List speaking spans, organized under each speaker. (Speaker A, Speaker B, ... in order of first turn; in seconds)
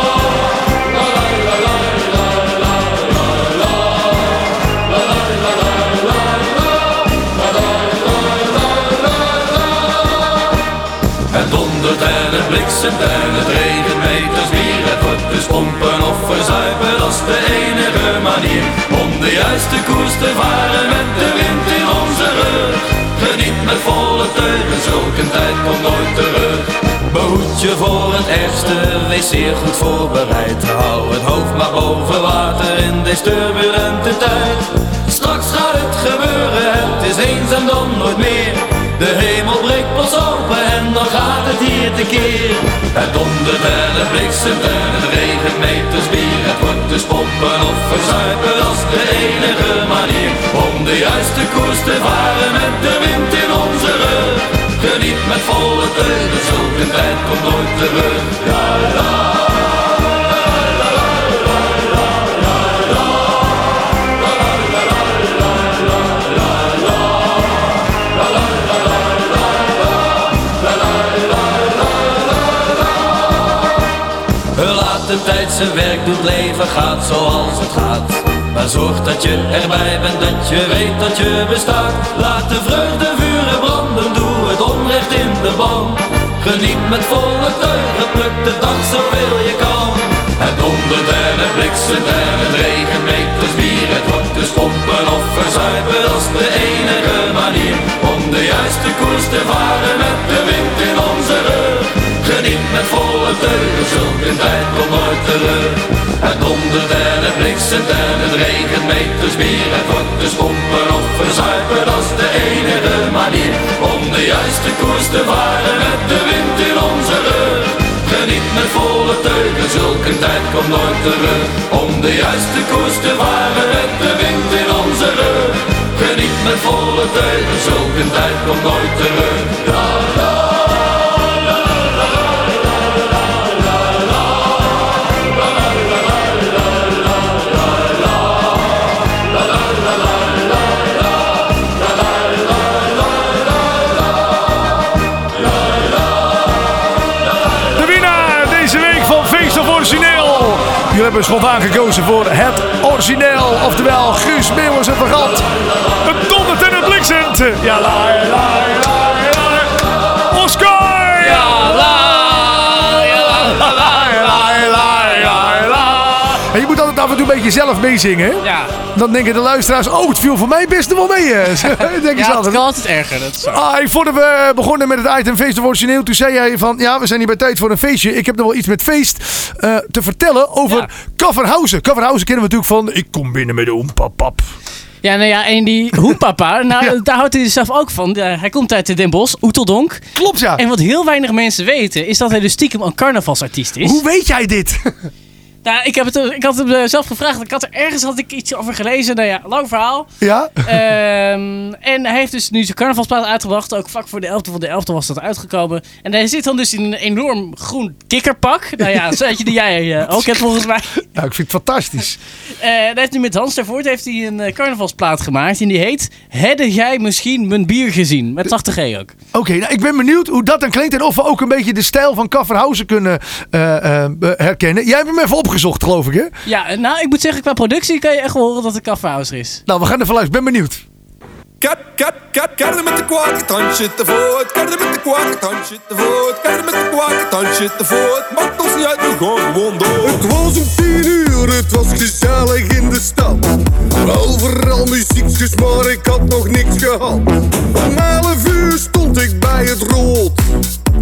Speaker A: 11.3-58.9, 74.5-130.0
Speaker B: 147.8-155.5, 156.0-159.7, 160.3-162.2, 163.5-172.6, 173.5-184.5, 190.2-190.6, 193.8-194.8, 200.2-200.6, 211.2-212.2, 219.3-226.3, 229.7-230.8
Speaker C: 161.3-165.5, 168.4-168.7, 171.6-173.6, 185.0-190.0, 190.6-194.0, 195.6-200.1, 200.6-211.0, 212.6-219.1, 226.5-229.6
Speaker D: 231.6-240.2
Speaker E: 240.0-243.4, 244.0-250.4